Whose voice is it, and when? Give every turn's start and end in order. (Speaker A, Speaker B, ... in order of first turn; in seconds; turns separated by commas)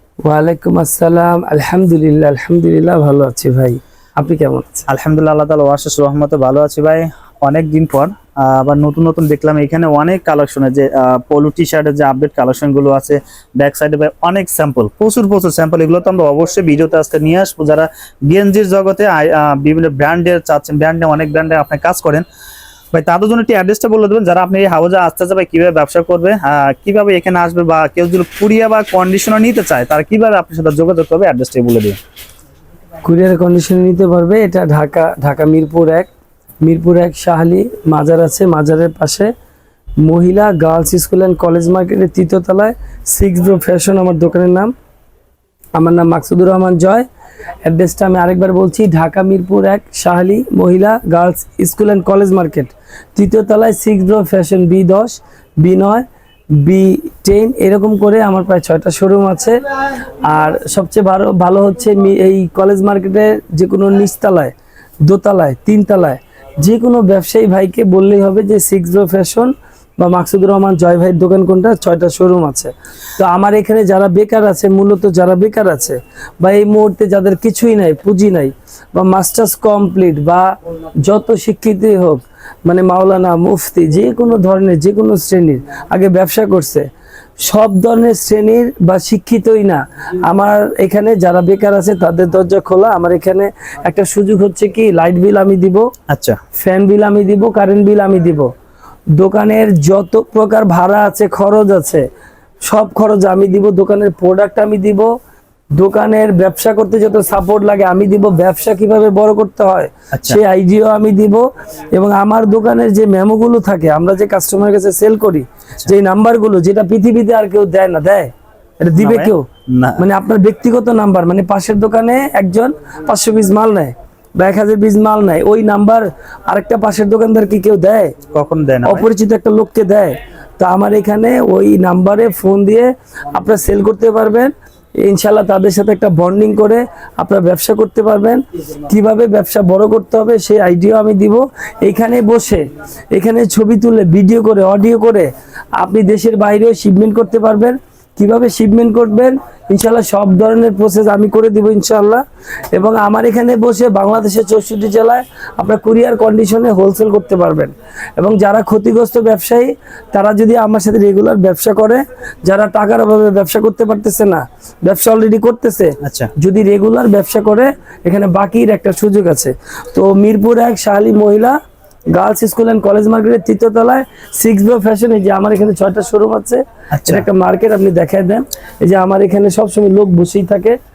Speaker A: 0.2-4.8, Speaker B: 4.9-22.2, Speaker B: 22.9-32.0, Speaker A: 33.0-36.1, Speaker A: 36.6-39.3, Speaker A: 40.0-44.7, Speaker A: 45.8-47.0, Speaker A: 47.6-59.6, Speaker A: 60.2-64.5, Speaker A: 65.0-86.9, Speaker A: 87.4-95.9, Speaker B: 96.1-96.4, Speaker A: 96.6-98.5, Speaker A: 99.2-102.0, Speaker A: 102.6-105.1, Speaker A: 105.8-119.5, Speaker B: 110.1-110.4, Speaker B: 119.0-120.0, Speaker A: 120.0-128.2, Speaker B: 128.3-129.1, Speaker A: 128.8-171.6, Speaker B: 166.0-166.3, Speaker A: 172.1-180.8, Speaker B: 176.9-177.3